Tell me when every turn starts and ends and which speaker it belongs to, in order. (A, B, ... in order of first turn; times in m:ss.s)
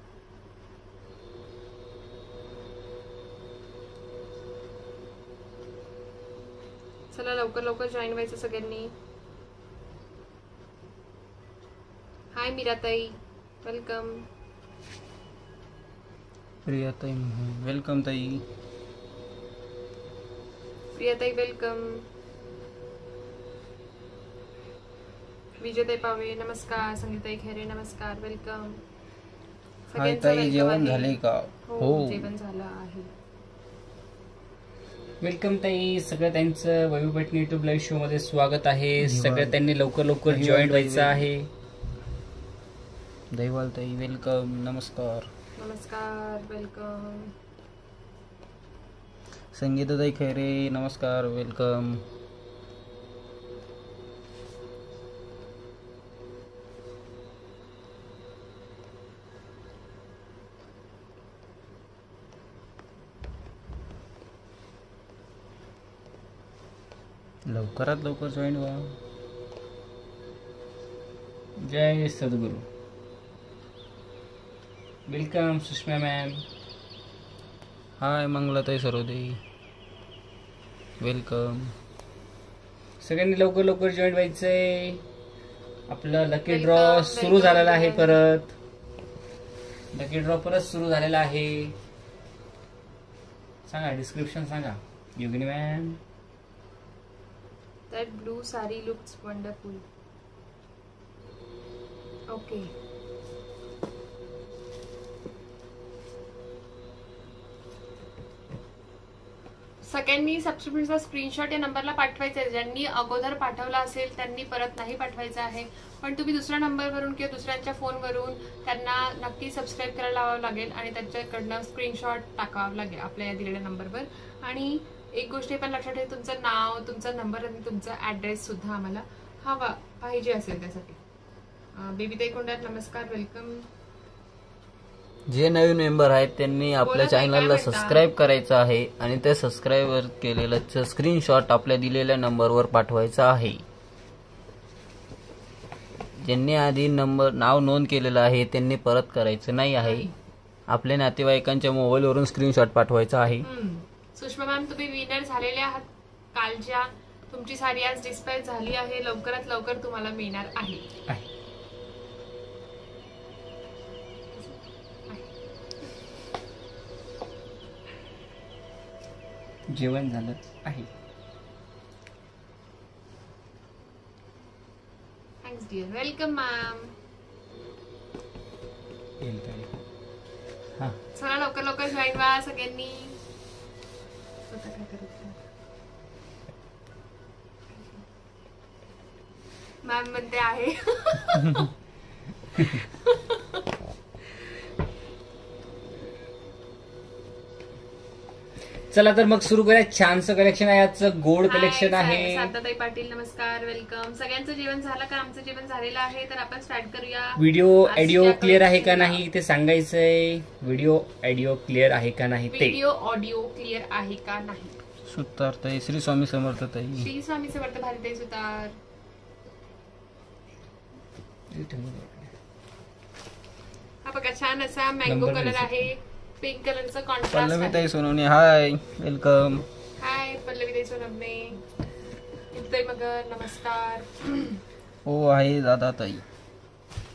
0:07.1-0:08.9 A
0:12.3-0:14.3 A
0:16.6-0:18.4 B
0:20.9-0:22.1 A
0:25.6-0:28.8 A
0:29.9-0:33.1 A
0:30.0-0:32.3 B
0:35.2-0:41.5 C
0:39.0-0:39.6 B
0:40.3-0:41.3 B
0:43.3-0:45.3 B
0:45.6-0:47.3 A
0:49.5-0:52.1 B
1:07.5-1:09.0 B
1:11.6-1:12.6 C
1:15.1-1:16.4 C
1:18.0-1:19.4 B
1:21.0-1:21.8 B
1:23.0-1:25.0 C
1:25.9-1:28.5 C
1:26.5-1:28.2 A
1:29.9-1:31.8 C
1:33.7-1:36.0 C
1:37.9-1:39.8 A
1:42.3-1:42.7 A
1:49.8-2:11.0 A
2:11.7-2:13.7 A
2:15.3-2:23.6 B
2:16.8-2:18.0 A
2:26.2-2:30.1 B
2:29.8-2:30.1 A
2:30.7-2:33.5 B
2:33.4-2:40.8 A
2:44.3-2:45.3 A
2:49.7-2:50.9 C
2:55.4-2:56.9 A
2:59.2-2:59.7 C
3:01.1-3:03.2 A
3:04.5-3:05.4 A
3:07.7-3:08.0 A
3:09.8-3:11.7 A
3:12.5-3:13.6 A
3:18.9-3:22.5 C
3:21.5-3:29.2 A
3:27.4-3:32.8 C
3:32.5-3:34.7 A
3:35.0-3:37.1 B
3:37.0-3:38.7 A
3:41.5-3:42.3 C
3:44.0-3:47.9 A
3:45.0-3:45.8 C
3:47.3-3:49.7 B
3:50.0-3:51.6 A
3:52.5-3:54.6 A
3:55.0-3:56.2 B